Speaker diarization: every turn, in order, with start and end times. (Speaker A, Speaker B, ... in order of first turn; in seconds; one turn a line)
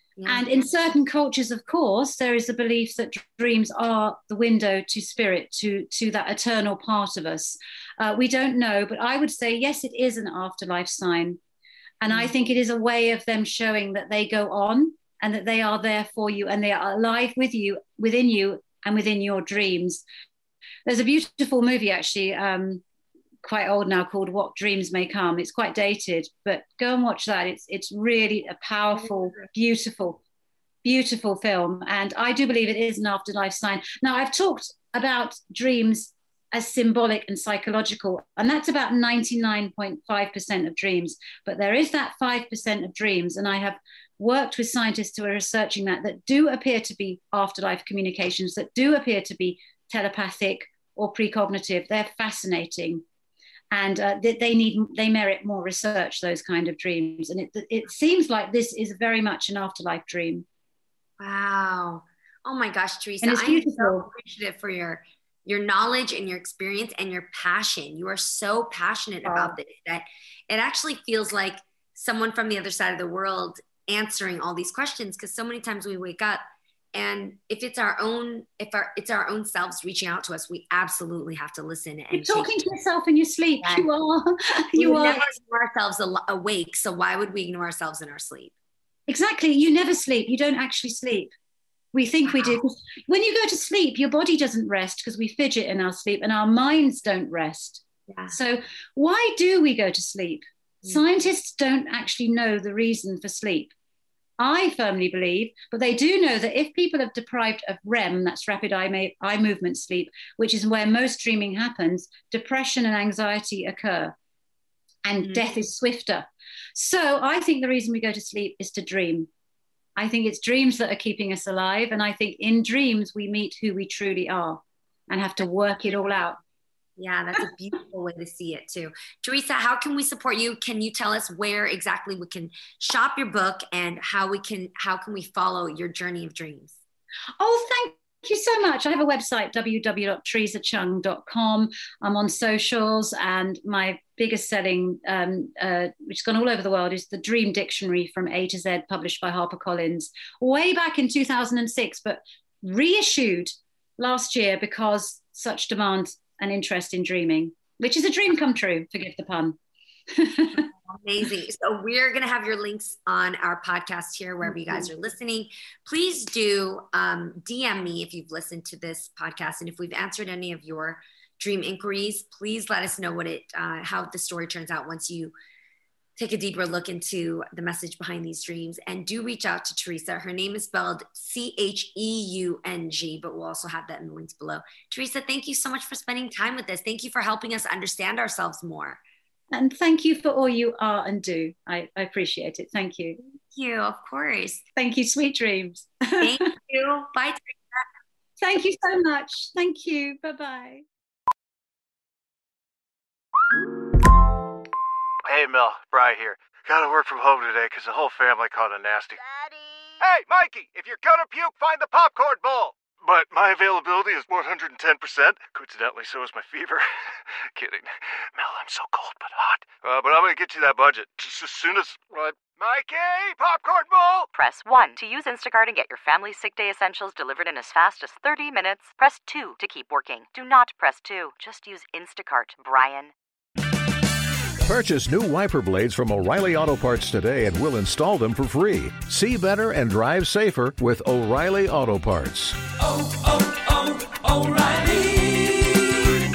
Speaker A: 0.2-0.6
Speaker B: 0.3-11.4
Speaker B: 12.0-20.0
Speaker A: 12.1-12.3
Speaker B: 20.9-22.8
Speaker B: 23.4-30.2
Speaker B: 30.8-53.0
Speaker B: 53.7-60.4
Speaker A: 61.2-82.5
Speaker B: 63.2-64.1
Speaker B: 69.2-69.5
Speaker B: 82.1-85.3
Speaker A: 83.6-83.8
Speaker A: 84.8-88.5
Speaker B: 89.1-91.3
Speaker B: 91.9-103.7
Speaker A: 92.2-92.6
Speaker A: 98.1-98.3
Speaker B: 104.4-114.1
Speaker B: 115.0-119.3
Speaker B: 120.0-126.4
Speaker A: 127.0-136.8
Speaker B: 137.4-159.6
Speaker B: 160.1-160.6
Speaker A: 160.8-175.3
Speaker A: 176.2-189.0
Speaker B: 189.5-193.2
Speaker A: 193.2-194.6
Speaker B: 194.8-196.3
Speaker A: 196.2-197.8
Speaker B: 198.4-200.8
Speaker C: 205.2-209.2
Speaker C: 210.0-216.8
Speaker C: 217.4-224.3
Speaker D: 224.3-233.1
Speaker E: 234.6-246.0